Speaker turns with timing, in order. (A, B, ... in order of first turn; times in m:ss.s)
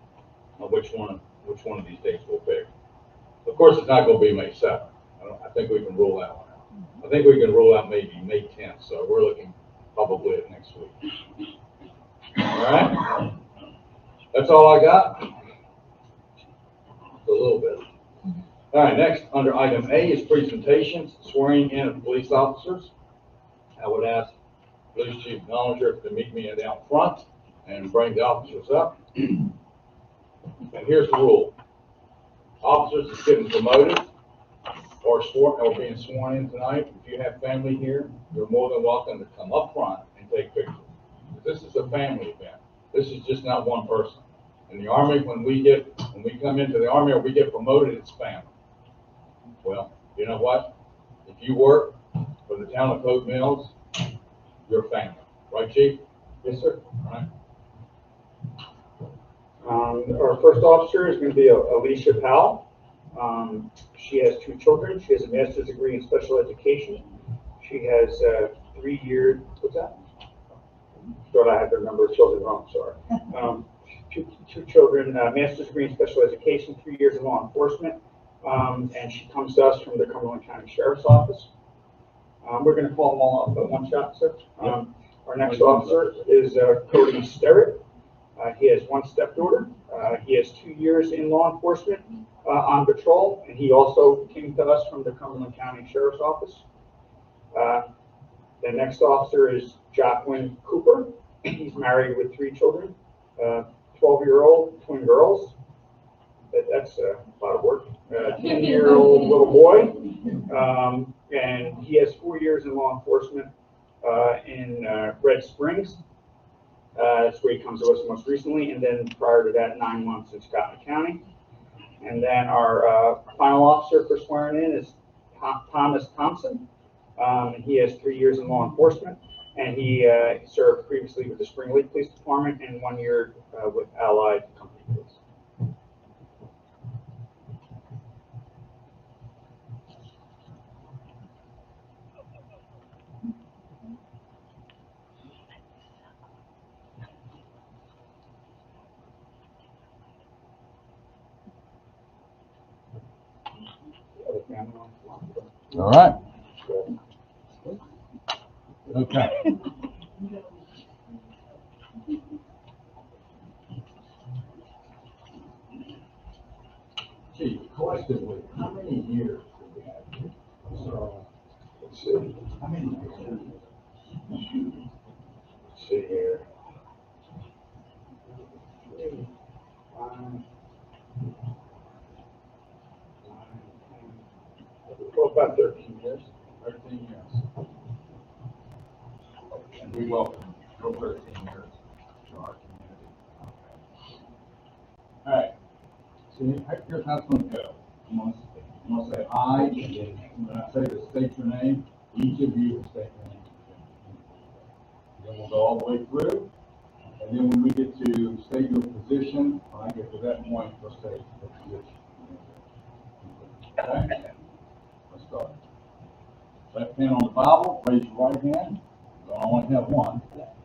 0:00.6-0:02.7 A
0:03.4-0:11.1 A
0:12.4-0:13.3 A
0:14.3-0:15.4 A
0:17.2-0:17.8 A
0:18.7-0:22.9 A
0:23.8-0:24.3 A
0:25.0-0:29.5 A
0:30.7-0:31.6 A
0:32.6-0:34.1 A
0:35.0-0:48.5 A
0:49.6-0:50.7 A
0:51.3-0:53.8 A
0:54.7-0:56.0 A
0:56.4-0:56.7 B
0:56.6-0:57.3 A
0:59.6-1:07.1 B
1:07.6-1:10.0 B
1:11.3-1:21.5 B
1:22.4-1:27.8 B
1:25.4-1:26.1 A
1:28.4-1:36.6 B
1:37.5-1:37.9 B
1:38.6-1:45.6 B
1:46.5-1:53.5 B
1:54.0-1:56.0 B
1:57.0-2:01.2 B
2:02.0-2:06.6 B
2:07.2-2:15.2 B
2:34.2-2:35.6 B
2:35.7-2:36.2 A
2:36.6-2:36.9 B
2:38.9-2:39.5 A
2:47.3-2:50.3 A
2:50.7-2:51.2 B
2:51.8-2:52.5 B
2:52.6-2:53.5 A
2:55.7-2:56.4 B
2:58.8-2:59.3 B
2:59.9-3:00.4 B
3:03.3-3:04.2 B
3:04.9-3:06.3 B
3:06.6-3:07.4 A
3:09.7-3:13.8 A
3:15.2-3:15.5 A
3:16.3-3:24.7 A
3:25.2-3:26.5 A
3:27.2-3:32.6 A
3:33.2-3:34.3 A
3:35.1-3:35.6 A
3:36.7-3:40.3 A